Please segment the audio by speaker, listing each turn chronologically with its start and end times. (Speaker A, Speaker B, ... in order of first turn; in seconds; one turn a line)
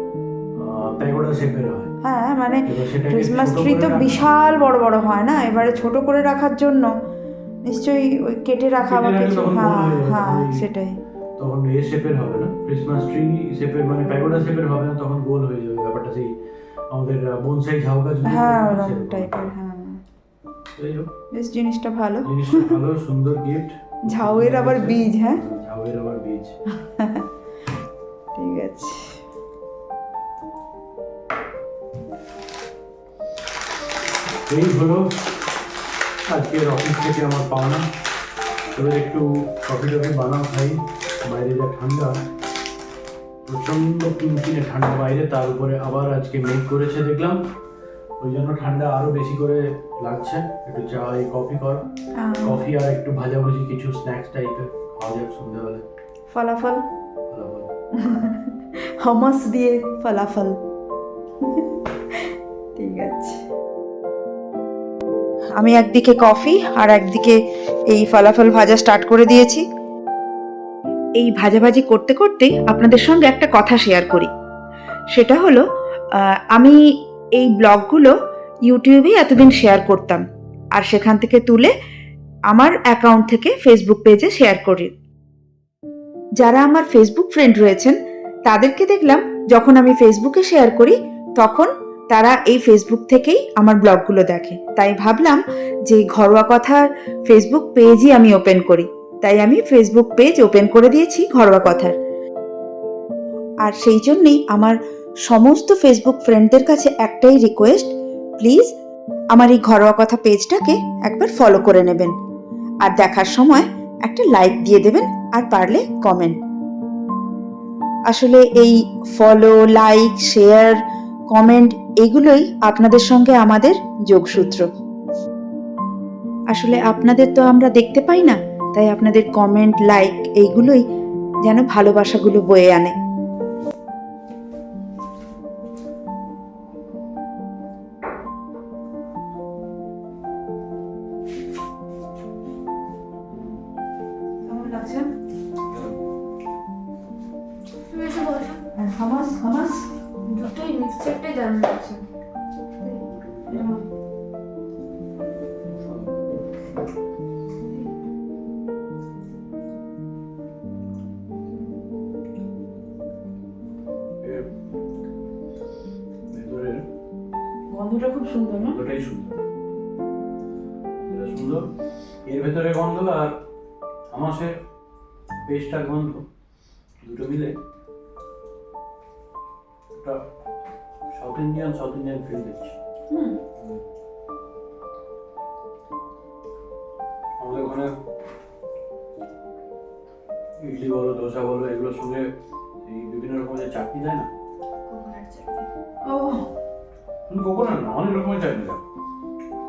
Speaker A: 0.6-1.9
Speaker B: 2.0-6.9
Speaker A: 2.6-4.2
Speaker B: 7.6-11.0
Speaker A: 8.8-10.6
Speaker A: 11.4-16.3
Speaker A: 16.9-19.5
Speaker B: 18.2-20.0
Speaker A: 20.8-21.1
Speaker B: 21.3-22.7
Speaker A: 22.2-26.6
Speaker B: 24.1-25.4
Speaker B: 26.8-27.2
Speaker B: 28.4-29.2
Speaker A: 34.5-35.0
Speaker A: 36.3-37.8
Speaker A: 38.7-42.1
Speaker A: 43.5-47.4
Speaker A: 48.2-51.9
Speaker B: 52.2-52.6
Speaker A: 52.4-55.8
Speaker B: 56.3-56.8
Speaker A: 57.3-57.7
Speaker B: 58.0-58.5
Speaker B: 59.0-60.6
Speaker B: 62.8-63.4
Speaker B: 65.5-67.4
Speaker B: 67.9-69.6
Speaker B: 71.2-74.3
Speaker B: 75.1-75.6
Speaker B: 76.2-76.8
Speaker B: 77.4-78.1
Speaker B: 78.7-80.2
Speaker B: 80.7-81.7
Speaker B: 82.5-84.9
Speaker B: 86.4-102.0
Speaker B: 103.6-108.7
Speaker B: 109.3-112.1
Speaker B: 112.8-116.4
Speaker B: 118.1-120.8
Speaker B: 121.3-124.7
Speaker B: 126.5-130.8
Speaker B: 131.4-132.9
Speaker B: 144.4-145.1
Speaker A: 145.7-146.0
Speaker C: 147.9-148.6
Speaker B: 148.7-149.9
Speaker C: 150.2-152.0
Speaker A: 153.1-153.7
Speaker B: 153.5-153.8
Speaker A: 155.7-156.1
Speaker A: 164.2-164.5
Speaker A: 166.3-166.8
Speaker B: 167.7-168.8
Speaker A: 168.5-169.3
Speaker A: 171.1-171.7
Speaker A: 172.2-173.3
Speaker A: 174.1-174.5
Speaker A: 175.4-176.2
Speaker A: 177.0-177.6
Speaker A: 179.9-180.2
Speaker A: 181.1-182.7
Speaker B: 183.1-183.4
Speaker A: 187.4-187.9
Speaker A: 190.6-192.3
Speaker A: 192.8-194.3
Speaker C: 194.9-195.7
Speaker B: 196.0-196.5
Speaker A: 197.3-198.8